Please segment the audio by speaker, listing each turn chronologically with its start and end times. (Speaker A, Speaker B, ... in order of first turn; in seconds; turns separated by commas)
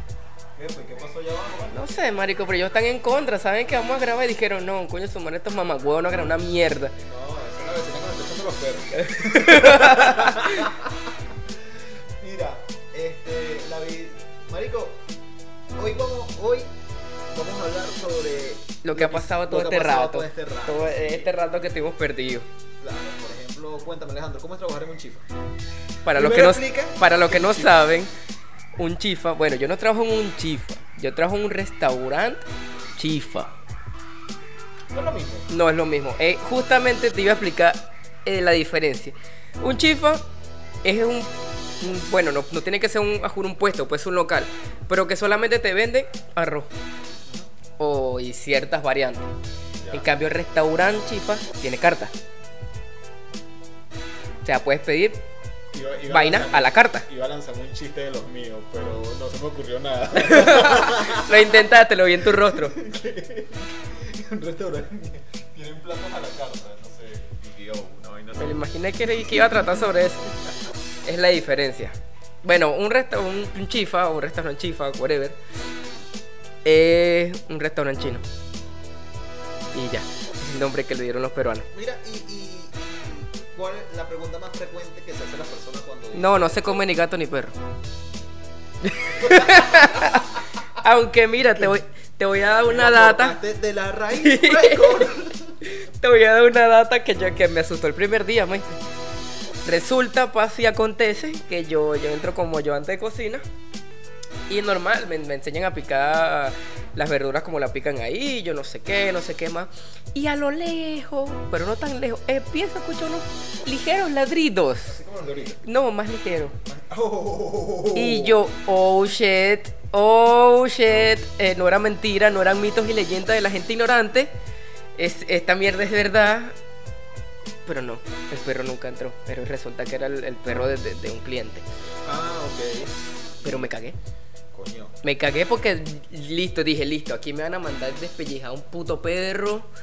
Speaker A: 0.6-1.8, Speaker B: 1.7-7.0, Speaker A: 7.0-15.0, Speaker B: 9.0-10.7, Speaker A: 15.8-16.7, Speaker A: 17.3-21.3, Speaker B: 18.8-22.5, Speaker A: 22.8-25.3, Speaker B: 26.1-28.1, Speaker A: 26.1-28.0, Speaker B: 28.8-32.4, Speaker B: 33.0-33.5, Speaker A: 34.9-35.5, Speaker B: 35.5-40.2, Speaker B: 40.8-46.7, Speaker B: 47.8-49.3, Speaker A: 49.8-50.3, Speaker B: 49.9-52.1, Speaker B: 54.5-55.3, Speaker A: 55.7-70.6, Speaker B: 56.0-57.1, Speaker B: 60.2-62.8, Speaker B: 68.4-70.2, Speaker B: 71.0-75.4, Speaker B: 76.7-78.2, Speaker B: 79.7-81.7, Speaker A: 81.7-86.8, Speaker B: 86.1-87.6, Speaker B: 88.8-93.4, Speaker A: 89.1-90.4, Speaker A: 92.7-95.6, Speaker B: 94.2-98.8, Speaker B: 99.6-103.4, Speaker B: 104.5-115.0, Speaker A: 114.9-115.6, Speaker B: 115.6-116.6, Speaker A: 116.6-118.5, Speaker B: 118.0-124.3, Speaker B: 125.0-126.5, Speaker B: 127.7-131.7, Speaker A: 132.0-133.7, Speaker B: 133.4-134.0, Speaker A: 134.5-134.9, Speaker B: 135.0-139.7